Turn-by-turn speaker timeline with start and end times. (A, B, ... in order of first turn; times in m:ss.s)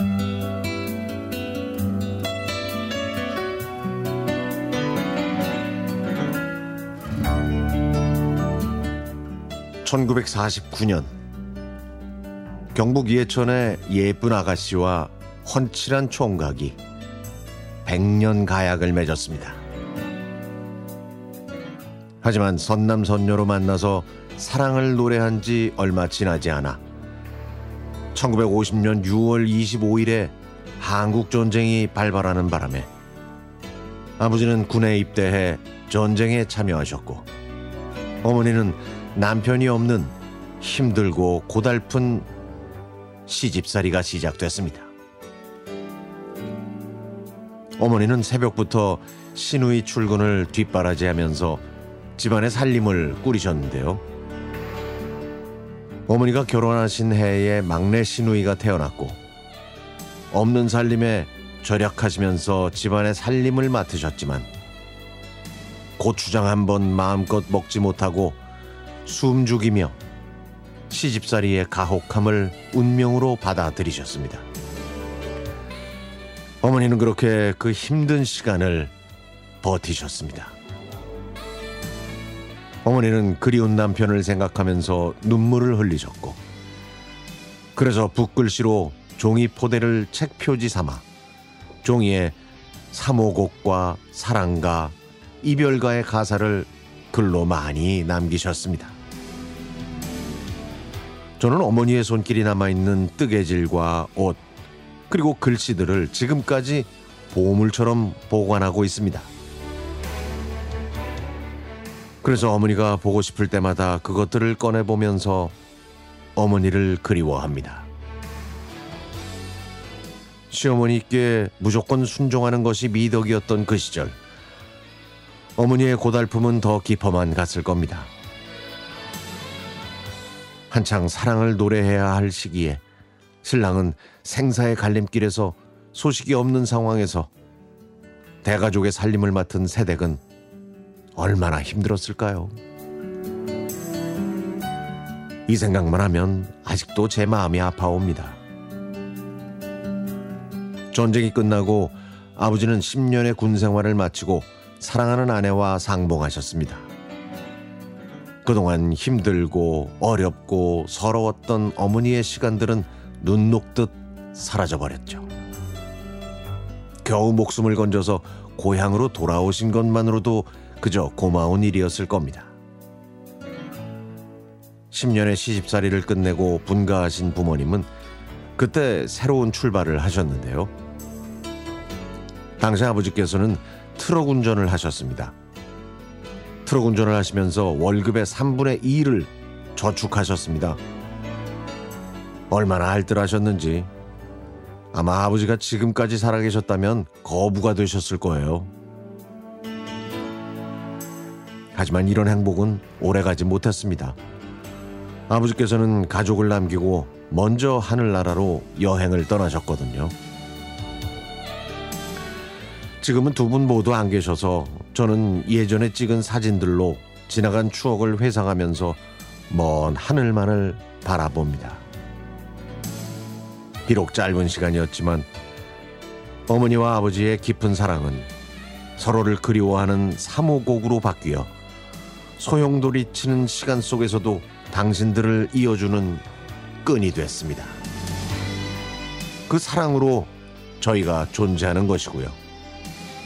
0:09.8-0:11.1 A
0:12.7-0:16.8 A
0:17.8-0:19.6 A
0:22.2-0:26.8 A
0:28.1-0:32.9 A
0:34.2-0:37.2 A
0:38.2-0:42.3 A
0:43.3-0:44.9 A
0:47.8-0:51.6 A
0:52.2-0:54.0 A
0:56.1-0:59.2 A
1:00.3-1:04.5 A
1:06.0-1:08.4 A
1:09.0-1:10.0 A
1:10.9-1:14.4 A
1:16.6-1:18.9 A
1:19.6-1:20.6 A
1:22.8-1:26.4 A
1:27.8-1:31.0 A
1:31.8-1:32.4 A
1:32.9-1:39.0 A
1:41.4-1:44.4 A
1:45.1-1:49.3 A
1:52.2-1:55.5 A
1:56.4-1:57.9 A
2:00.5-2:04.2 A
2:05.6-2:08.1 A
2:10.7-2:12.8 A
2:13.4-2:17.3 A
2:18.4-2:20.2 A
2:21.2-2:22.6 A
2:25.5-2:28.4 A
2:30.9-2:36.9 A
2:38.4-2:45.2 A
2:47.0-2:52.5 A
2:54.9-2:57.9 A
2:58.6-3:00.7 A
3:02.6-3:05.4 A
3:06.6-3:10.8 A
3:12.5-3:13.9 A
3:14.9-3:18.7 A
3:21.7-3:24.2 A
3:25.3-3:30.1 A
3:33.0-3:41.8 A
3:43.9-3:45.3 A
3:46.5-3:48.3 A
3:49.0-3:51.5 A
3:52.4-3:56.2 A
3:56.8-3:57.8 A
3:59.5-4:02.4 A